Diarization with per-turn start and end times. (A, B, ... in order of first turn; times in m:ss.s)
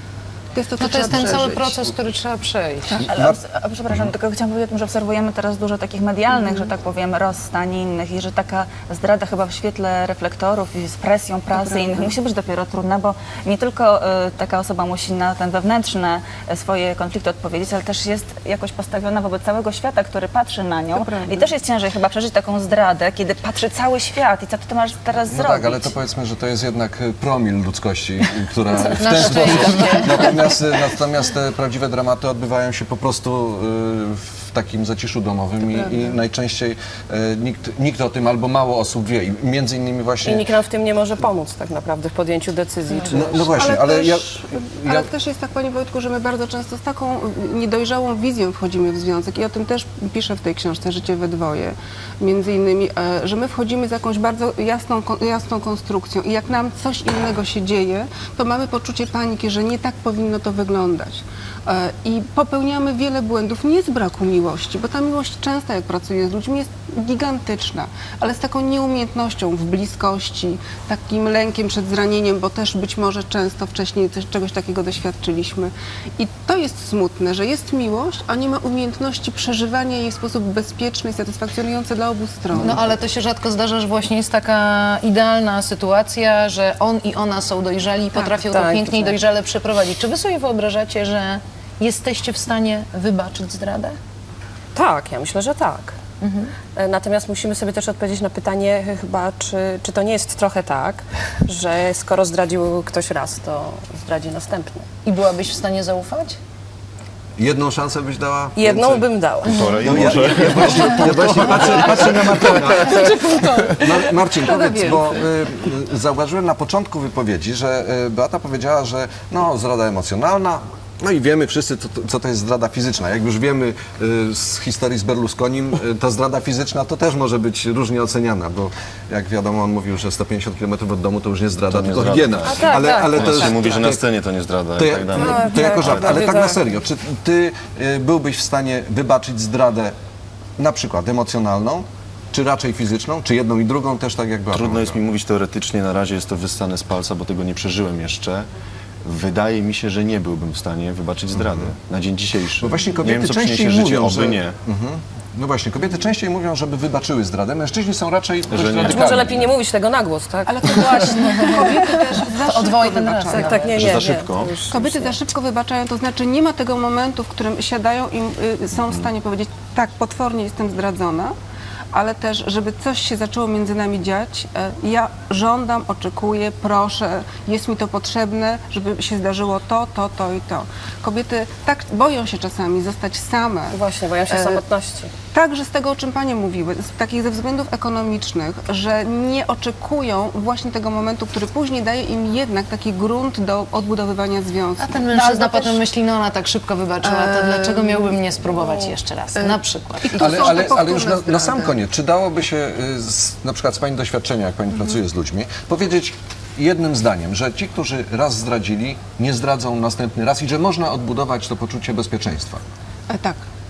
0:00.5-0:01.9 A
0:00.8-0:03.0 B
0:03.1-0:03.4 C
0:03.1-0:25.9 D
0:11.5-0:12.1 A
0:20.9-0:21.5 A
0:25.3-0:40.5 C
0:28.7-0:30.4 B
0:35.7-0:36.2 A
0:40.2-0:43.6 E
0:43.1-0:45.1 C
0:43.5-1:22.9 A
1:22.5-1:34.0 B
1:28.1-1:29.2 E
1:34.7-1:36.0 E
1:36.2-1:36.5 B
1:36.7-1:44.9 E
1:45.0-1:46.4 B
1:47.4-1:49.0 C
1:48.5-1:50.8 E
1:49.4-1:52.4 F
1:49.8-2:14.0 C
1:51.5-1:55.2 E
2:11.7-2:16.3 F
2:12.4-2:13.5 E
2:14.8-2:19.9 C
2:15.2-2:16.6 E
2:20.6-2:25.0 C
2:24.5-2:28.5 F
2:29.0-2:34.6 F
2:32.6-2:39.4 C
2:38.5-2:39.5 F
2:38.9-2:42.2 E
2:40.4-2:44.1 A
2:42.4-2:43.8 B
2:43.3-2:45.2 E
2:43.7-2:44.6 F
2:44.7-2:51.3 A
2:51.9-3:04.6 A
3:03.7-3:05.1 E
3:05.3-3:15.8 A
3:14.8-3:20.3 B
3:17.0-3:18.2 A
3:19.3-3:21.8 A
3:20.2-3:32.6 C
3:33.1-3:33.4 A